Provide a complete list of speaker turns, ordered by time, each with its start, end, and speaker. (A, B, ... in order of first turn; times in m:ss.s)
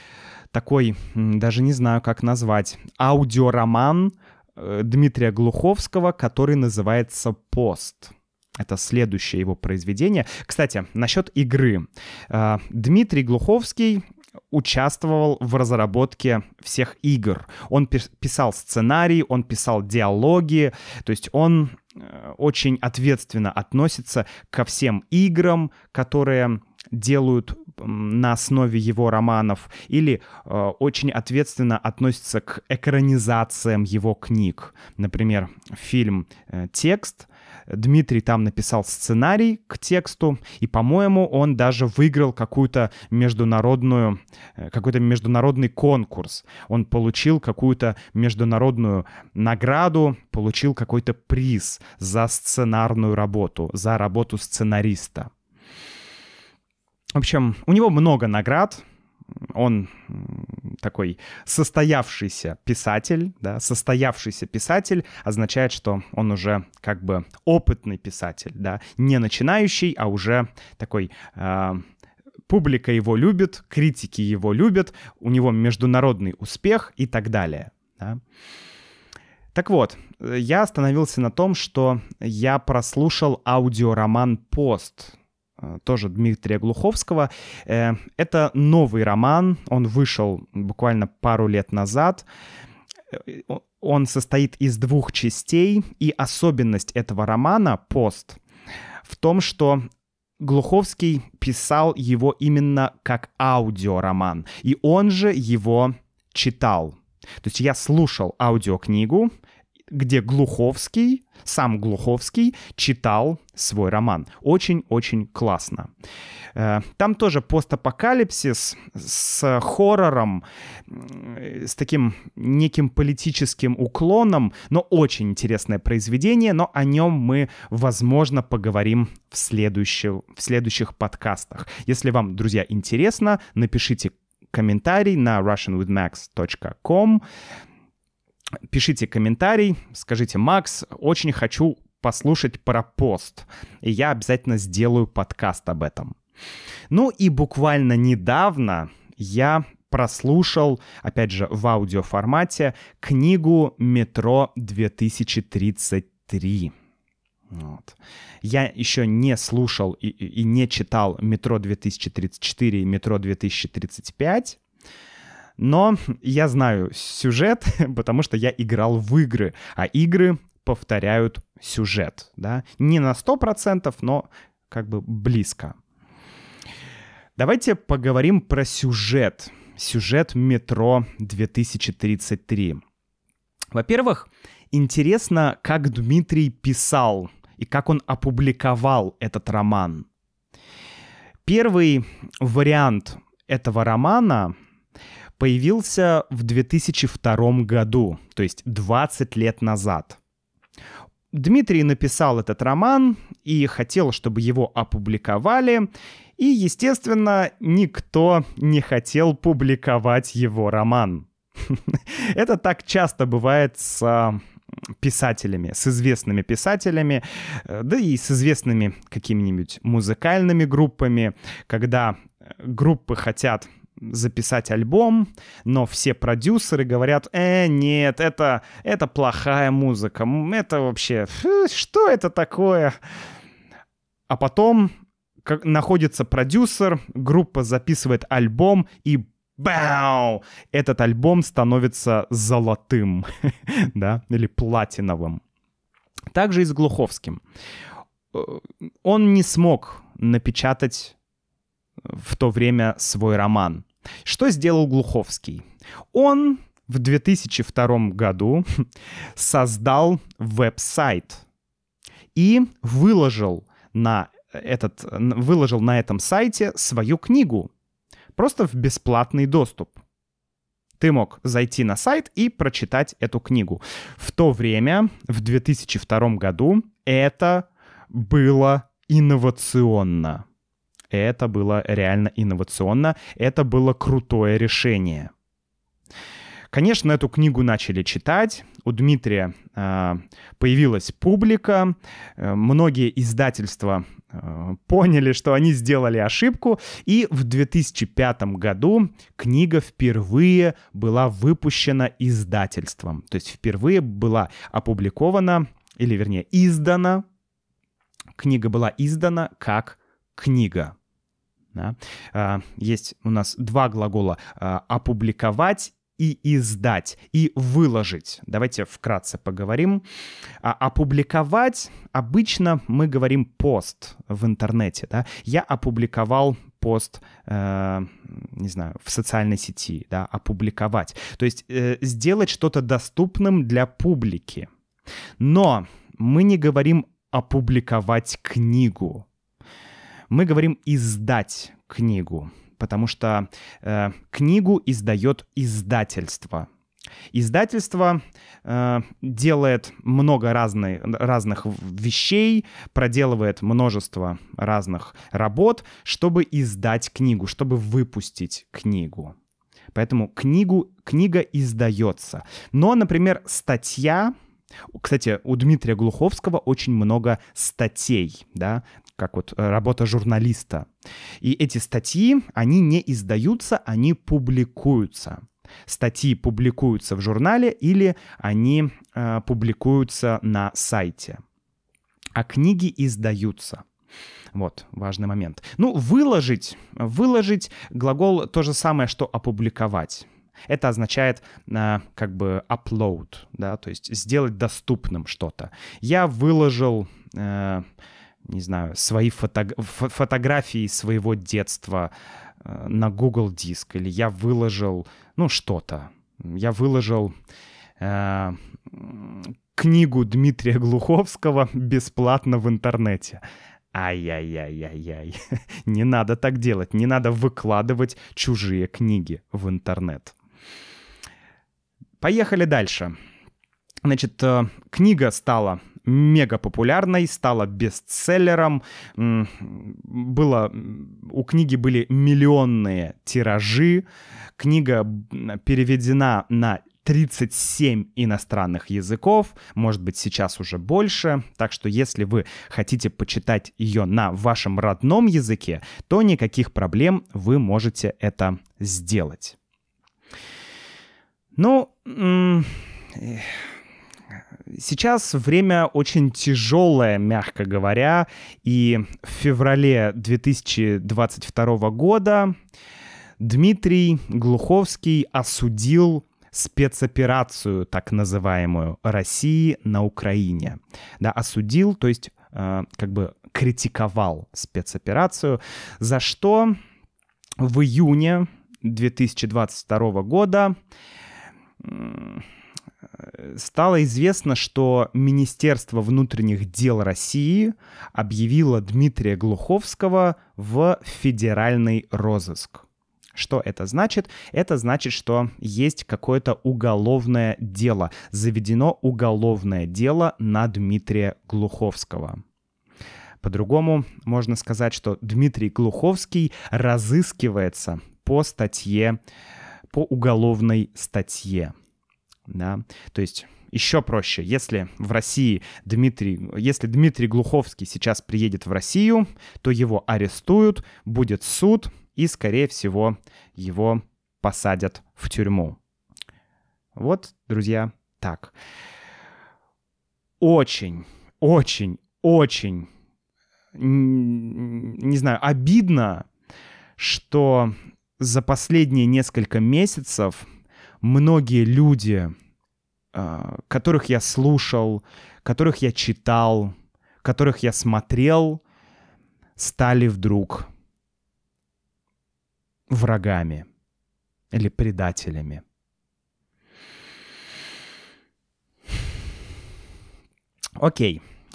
0:00.5-0:55.3 A
0:57.1-0:58.8 A
0:59.5-1:11.8 A
1:12.5-1:18.2 A
1:19.5-1:32.2 A
1:33.1-1:38.4 A
1:39.0-1:39.8 A
1:40.4-1:49.3 A
1:49.9-1:55.9 A
1:56.5-2:17.2 A
2:18.7-2:26.1 A
2:26.9-2:36.7 A
2:37.5-2:44.6 A
2:45.6-2:55.8 A
2:57.4-3:02.8 A
3:03.7-3:10.0 A
3:11.4-3:14.5 A
3:15.4-3:20.2 A
3:21.3-3:34.4 A
3:35.0-3:52.9 A
3:54.3-3:54.9 A
3:55.4-4:05.4 A
4:06.3-4:07.4 A
4:08.3-4:11.1 A
4:12.1-4:18.6 A
4:19.4-4:21.4 A
4:22.3-4:27.7 A
4:28.3-4:30.0 A
4:31.0-4:40.4 A
4:41.1-4:45.3 A
4:46.7-5:07.2 A
5:08.4-5:10.9 A
5:11.7-5:20.0 A
5:20.6-5:34.7 A
5:35.4-5:39.2 A
5:40.3-5:46.7 A
5:47.3-5:59.3 A
5:59.9-6:04.3 A
6:04.9-6:10.9 A
6:11.4-6:21.4 A
6:22.3-6:23.8 A
6:24.5-6:37.8 A
6:38.5-6:42.1 A
6:42.6-6:47.3 A
6:48.0-6:53.4 A
6:53.9-7:00.3 A
7:02.2-7:03.1 A
7:04.0-7:14.0 A
7:14.6-7:29.6 A
7:31.6-7:33.6 A
7:34.7-7:42.5 A
7:43.4-7:56.8 A
7:57.6-8:00.7 A
8:01.8-8:02.4 A
8:03.2-8:22.4 A
8:23.4-8:29.2 A
8:29.9-8:31.7 A
8:32.5-8:45.8 A
8:47.0-8:48.5 A
8:50.4-8:52.9 A
8:53.8-8:56.2 A
8:57.0-9:00.5 A
9:01.0-9:02.3 A
9:03.1-9:08.6 A
9:09.6-9:10.7 A
9:12.9-9:13.7 A
9:14.5-9:15.6 A
9:20.8-9:21.2 A